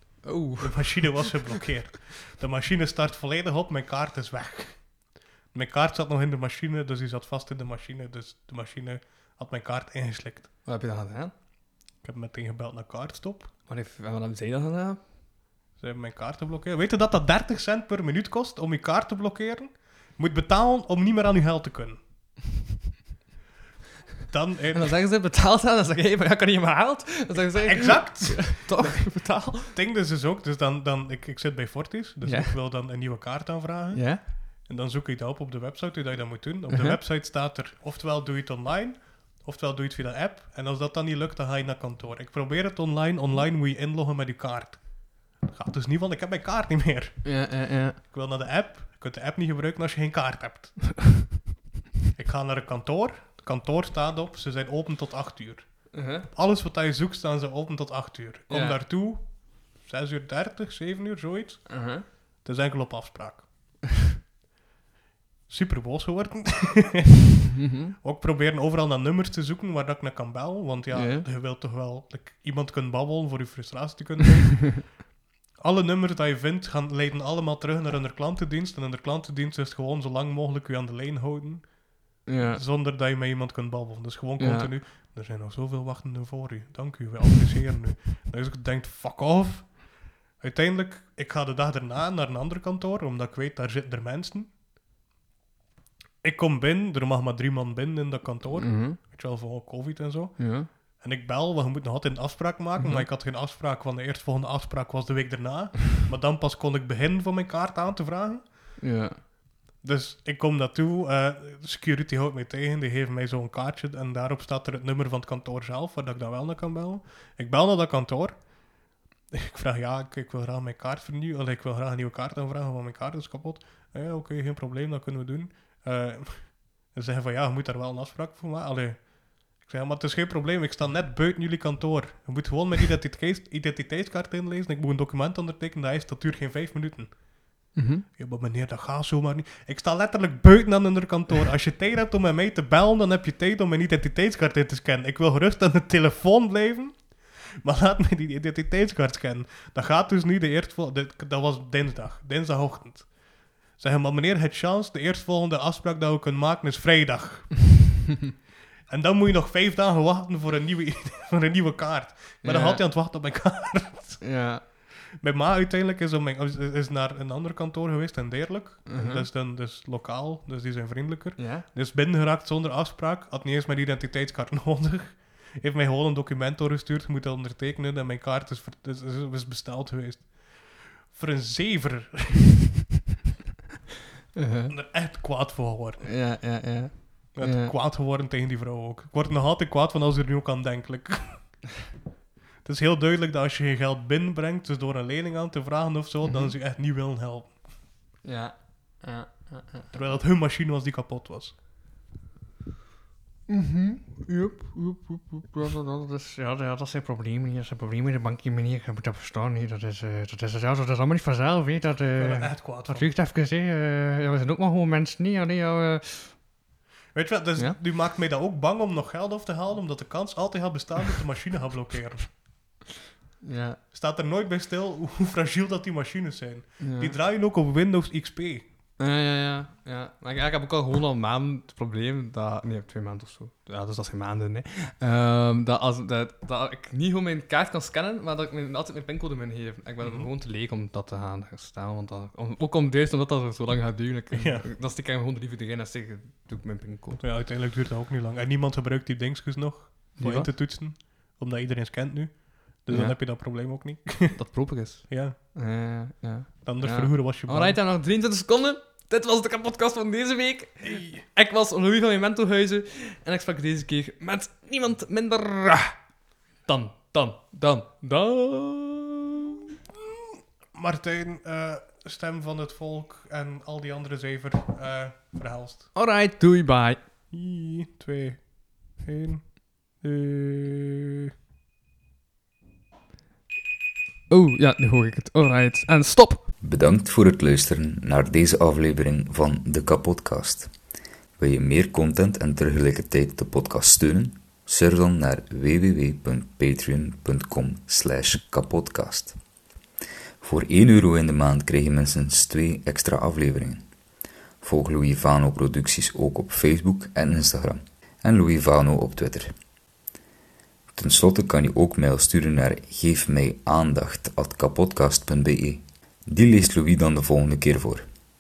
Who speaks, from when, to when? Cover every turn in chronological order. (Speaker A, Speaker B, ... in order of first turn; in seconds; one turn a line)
Speaker A: 0.2-1.6
Speaker B: 0.6-5.0
Speaker B: 5.5-10.5
Speaker A: 10.7-11.3
Speaker B: 12.0-13.5
Speaker A: 13.7-15.0
Speaker B: 15.8-22.0
Speaker B: 24.3-24.9
Speaker A: 24.7-29.8
Speaker B: 27.6-50.9
Speaker A: 32.2-32.6
Speaker A: 33.9-34.2
Speaker A: 36.7-37.0
Speaker A: 47.2-48.0
Speaker B: 52.1-63.8
Speaker A: 55.9-56.3
Speaker A: 58.5-58.8
Speaker A: 61.7-62.1
Speaker B: 65.5-67.2
Speaker A: 67.6-68.0
Speaker B: 68.0-75.0
Speaker A: 70.9-71.3
Speaker B: 75.6-81.8
Speaker A: 82.3-82.6
Speaker B: 82.4-89.8
Speaker A: 84.4-84.7
Speaker B: 90.4-94.5
Speaker B: 96.2-108.8
Speaker A: 98.5-99.0
Speaker A: 100.4-100.7
Speaker A: 102.8-103.1
Speaker A: 108.8-109.2
Speaker B: 109.8-118.5
Speaker B: 119.3-137.2
Speaker A: 137.8-138.1
Speaker B: 138.1-153.2
Speaker B: 153.7-157.8
Speaker B: 158.9-164.3
Speaker A: 162.4-162.8
Speaker A: 164.2-164.6
Speaker B: 165.2-182.6
Speaker A: 168.9-169.3
Speaker A: 171.4-171.7
Speaker A: 184.3-184.8
Speaker B: 184.7-186.2
Speaker A: 186.0-187.7
Speaker B: 187.3-191.6
Speaker B: 192.6-197.6
Speaker A: 196.2-196.6
Speaker A: 198.2-200.1
Speaker B: 199.9-201.6
Speaker A: 203.5-216.4
Speaker B: 212.2-213.1
Speaker B: 217.1-222.3
Speaker A: 223.4-223.8
Speaker B: 223.9-228.7
Speaker A: 226.8-227.2
Speaker A: 229.0-247.2
Speaker B: 240.0-240.3
Speaker B: 244.3-244.7
Speaker B: 247.2-254.4
Speaker A: 250.2-250.5
Speaker A: 252.9-253.2
Speaker A: 254.3-266.0
Speaker B: 255.1-255.4
Speaker B: 256.6-257.8
Speaker B: 260.8-261.2
Speaker A: 266.7-269.6
Speaker B: 270.7-275.9
Speaker A: 275.9-277.0
Speaker B: 277.3-281.1
Speaker A: 284.3-286.5
Speaker C: 286.6-290.7
Speaker C: 291.4-299.4
Speaker C: 300.4-303.8
Speaker C: 304.6-309.5
Speaker C: 310.9-318.1